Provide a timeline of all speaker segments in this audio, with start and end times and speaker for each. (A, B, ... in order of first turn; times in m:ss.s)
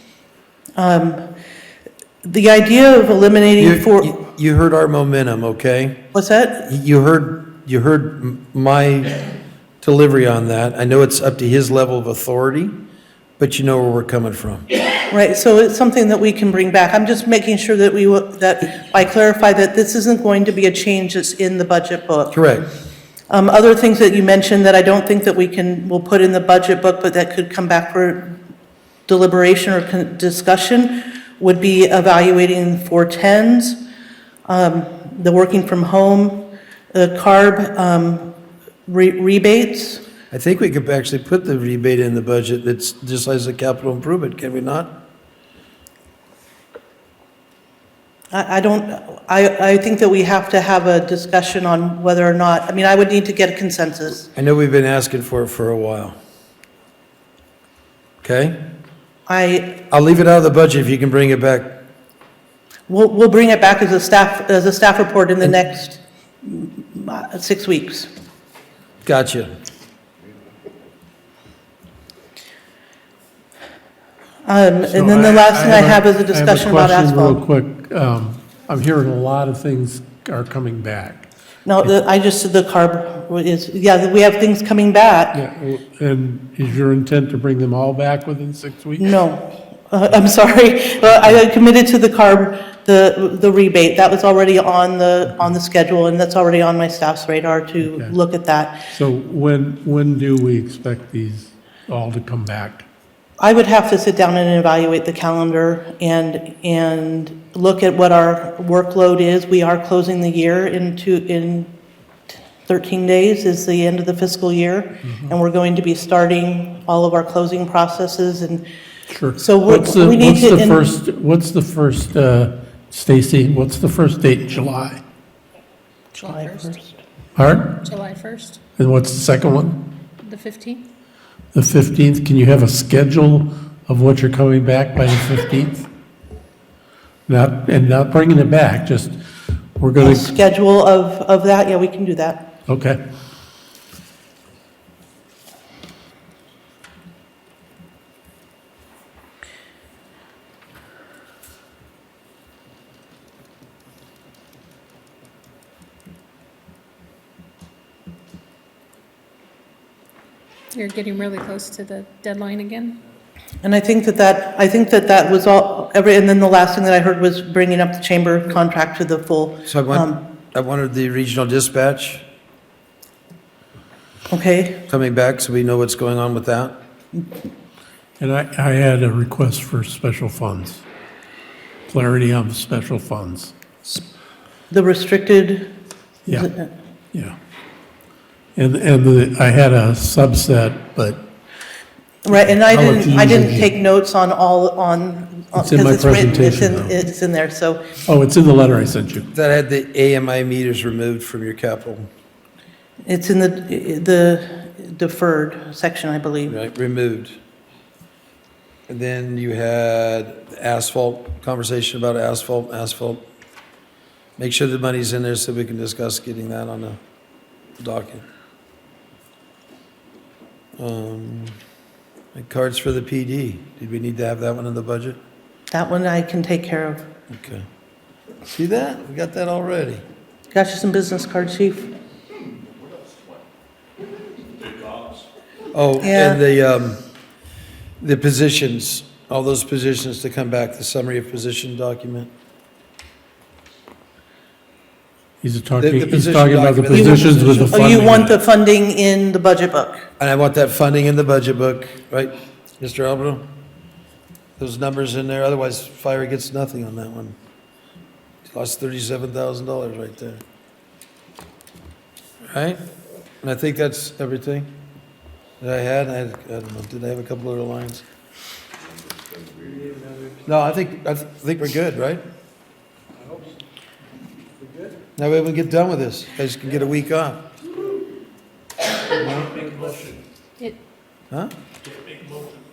0:00.8-0:01.3 A
0:02.2-0:04.2 A
0:03.6-0:06.0 B
0:06.1-0:06.6 A
0:06.6-0:09.2 B
0:09.8-0:12.7 B
0:13.4-0:14.7 B
0:15.1-0:22.3 A
0:22.3-0:22.6 B
0:23.3-0:28.4 A
0:29.1-0:33.8 A
0:34.5-0:38.3 A
0:38.9-0:40.1 A
0:40.3-0:44.9 B
0:48.3-0:54.3 A
0:54.4-0:56.2 B
0:58.2-0:58.6 B
0:59.3-0:59.8 A
0:59.9-1:01.8 B
1:02.9-1:08.1 A
1:09.0-1:09.5 B
1:14.5-1:17.4 A
1:14.9-1:21.3 C
1:21.6-1:25.4 A
1:25.3-1:29.1 C
1:29.0-1:38.8 A
1:37.8-1:38.2 C
1:38.9-1:42.9 C
1:43.4-1:51.7 A
1:52.6-1:58.6 A
1:59.1-2:05.0 C
1:59.4-2:00.9 A
2:06.2-2:06.5 C
2:06.2-2:06.9 A
2:07.4-2:10.8 C
2:07.8-2:08.6 D
2:10.3-2:10.8 D
2:11.5-2:15.9 C
2:17.3-2:19.2 C
2:19.8-2:20.2 C
2:20.0-2:22.5 A
2:22.7-2:23.0 C
2:40.8-2:43.0 D
2:40.9-2:42.9 C
2:43.6-2:50.2 A
2:49.7-2:52.2 B
2:54.3-2:54.8 A
2:54.9-2:56.8 B
2:58.2-3:00.8 C
3:01.9-3:03.5 C
3:04.7-3:05.7 A
3:06.3-3:06.7 A
3:08.6-3:11.2 C
3:12.2-3:17.9 A
3:12.4-3:13.7 C
3:15.6-3:17.0 C
3:18.1-3:19.3 C
3:19.3-3:22.1 B
3:23.1-3:26.6 A
3:26.5-3:27.4 B
3:28.9-3:33.2 B
3:34.4-3:37.0 B
3:37.8-3:38.2 B
3:40.8-3:41.6 B
3:42.4-3:45.2 B
3:45.7-3:47.0 A
3:47.3-3:47.7 B
3:48.4-3:50.0 B
3:50.5-3:51.9 A
3:55.7-3:57.0 B
3:56.0-3:56.4 A
3:58.0-4:02.3 B
4:05.4-4:08.4 C
4:05.8-4:08.1 B
4:06.9-4:10.0 A
4:10.2-4:13.5 B
4:14.6-4:17.4 B
4:18.4-4:20.4 B
4:22.5-4:22.8 B
4:23.4-4:24.7 B
4:25.6-4:28.0 B
4:29.8-4:30.4 C
4:30.4-4:32.2 B
4:35.2-4:37.5 B
4:39.3-4:39.8 B
4:39.4-4:40.2 C
4:42.0-4:42.5 C